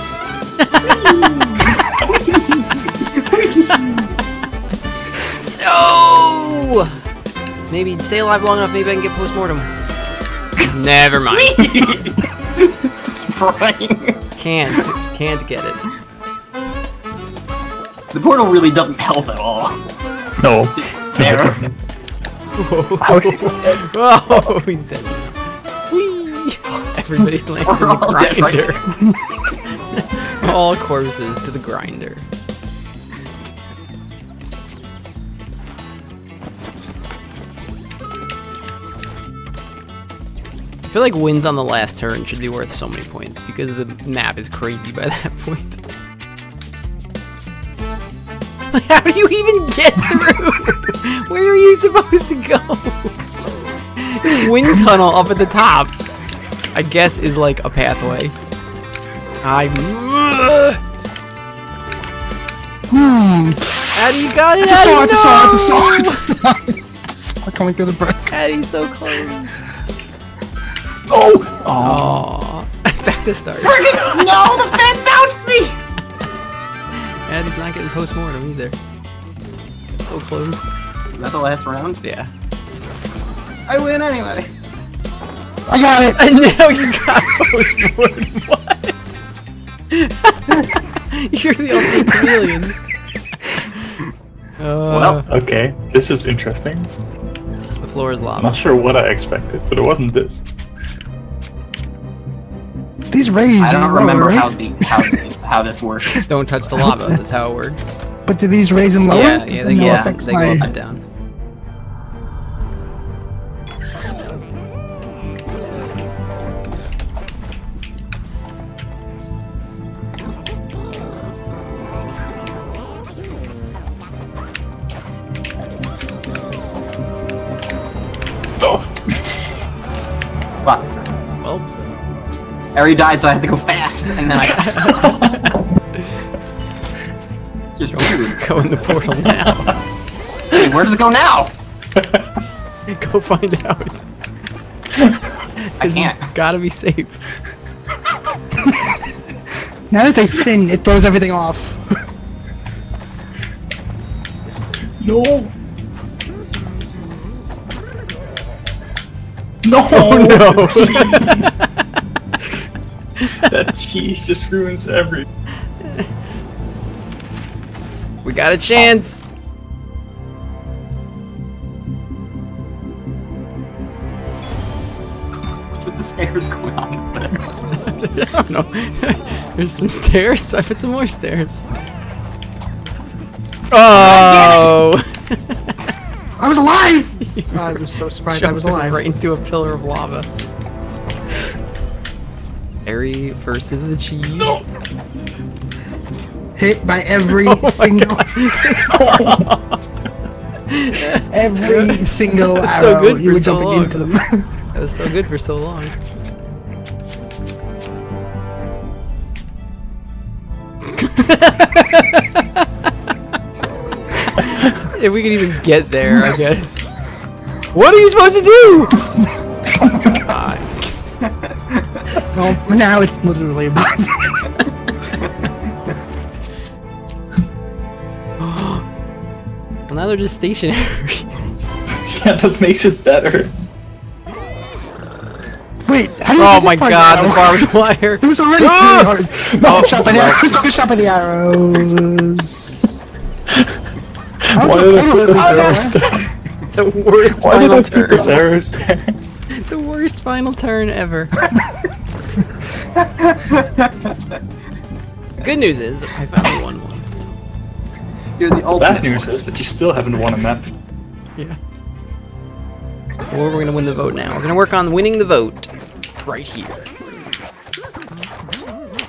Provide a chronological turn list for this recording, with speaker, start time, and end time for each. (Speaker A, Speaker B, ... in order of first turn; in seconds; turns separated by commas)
Speaker A: 0.6-1.6, Speaker B: 1.0-4.0, Speaker A: 5.6-7.0, Speaker A: 7.7-9.7, Speaker A: 10.6-11.6, Speaker B: 11.3-14.2, Speaker A: 14.4-15.8, Speaker B: 18.1-19.8, Speaker C: 20.4-21.8, Speaker B: 20.8-21.7, Speaker A: 22.6-28.9, Speaker C: 23.0-24.5, Speaker B: 27.6-28.9, Speaker D: 29.0-29.3, Speaker A: 29.9-32.2, Speaker A: 40.9-45.8, Speaker A: 48.7-53.2, Speaker A: 54.0-55.9, Speaker A: 56.7-58.3, Speaker A: 59.4-60.8, Speaker D: 62.9-68.3, Speaker A: 64.0-66.3, Speaker A: 68.3-69.7, Speaker C: 71.1-72.2, Speaker A: 71.8-74.5, Speaker B: 73.6-75.8, Speaker A: 77.3-78.8, Speaker A: 80.0-80.7, Speaker B: 81.1-82.0, Speaker A: 82.0-82.3, Speaker B: 83.7-84.5, Speaker D: 85.7-86.2, Speaker A: 86.2-89.2, Speaker A: 89.9-92.8, Speaker D: 92.1-92.4, Speaker A: 93.7-94.0, Speaker A: 94.6-95.3, Speaker B: 94.9-95.2, Speaker C: 95.3-96.9, Speaker A: 97.8-98.6, Speaker C: 98.4-100.4, Speaker D: 103.1-105.2, Speaker B: 103.6-106.2, Speaker A: 106.3-108.0, Speaker D: 106.7-107.2, Speaker D: 108.3-110.7, Speaker A: 109.1-111.0, Speaker B: 109.7-110.7, Speaker C: 128.6-128.9, Speaker A: 131.4-131.7, Speaker B: 132.8-134.9, Speaker A: 134.2-135.4, Speaker C: 134.9-135.6, Speaker B: 137.8-138.4, Speaker A: 137.9-139.7, Speaker C: 139.2-139.8, Speaker B: 140.5-141.5, Speaker C: 142.0-142.3, Speaker A: 142.9-144.1, Speaker A: 145.6-147.2, Speaker B: 145.8-146.3, Speaker D: 148.6-149.1, Speaker D: 149.9-152.0, Speaker C: 155.0-155.5, Speaker C: 159.6-161.5, Speaker A: 159.9-161.7, Speaker A: 163.2-163.5, Speaker C: 163.4-165.3, Speaker A: 168.2-169.2, Speaker B: 175.8-177.4, Speaker A: 177.7-181.8, Speaker A: 183.7-185.7, Speaker B: 184.1-184.6, Speaker D: 186.4-189.0, Speaker A: 187.3-190.3, Speaker A: 192.8-194.7, Speaker D: 196.6-198.5, Speaker A: 197.3-199.8, Speaker C: 198.8-199.5, Speaker A: 200.7-204.1, Speaker D: 201.3-204.5, Speaker A: 204.7-206.0, Speaker A: 210.9-212.9, Speaker A: 214.5-216.8, Speaker A: 217.7-219.0, Speaker A: 220.2-220.9, Speaker B: 221.8-222.0, Speaker D: 222.3-224.5, Speaker A: 228.4-228.8, Speaker A: 229.9-231.3, Speaker C: 232.1-233.5, Speaker D: 235.9-243.0, Speaker A: 236.4-240.5, Speaker C: 239.5-240.3, Speaker C: 243.5-243.8, Speaker C: 244.4-246.3, Speaker D: 244.5-246.0, Speaker A: 245.3-245.9, Speaker A: 246.7-248.4, Speaker C: 247.3-249.2, Speaker A: 249.6-251.3, Speaker B: 253.0-254.1, Speaker A: 255.4-257.1, Speaker B: 258.4-259.3, Speaker C: 258.8-260.7, Speaker A: 263.3-265.7, Speaker A: 266.2-266.9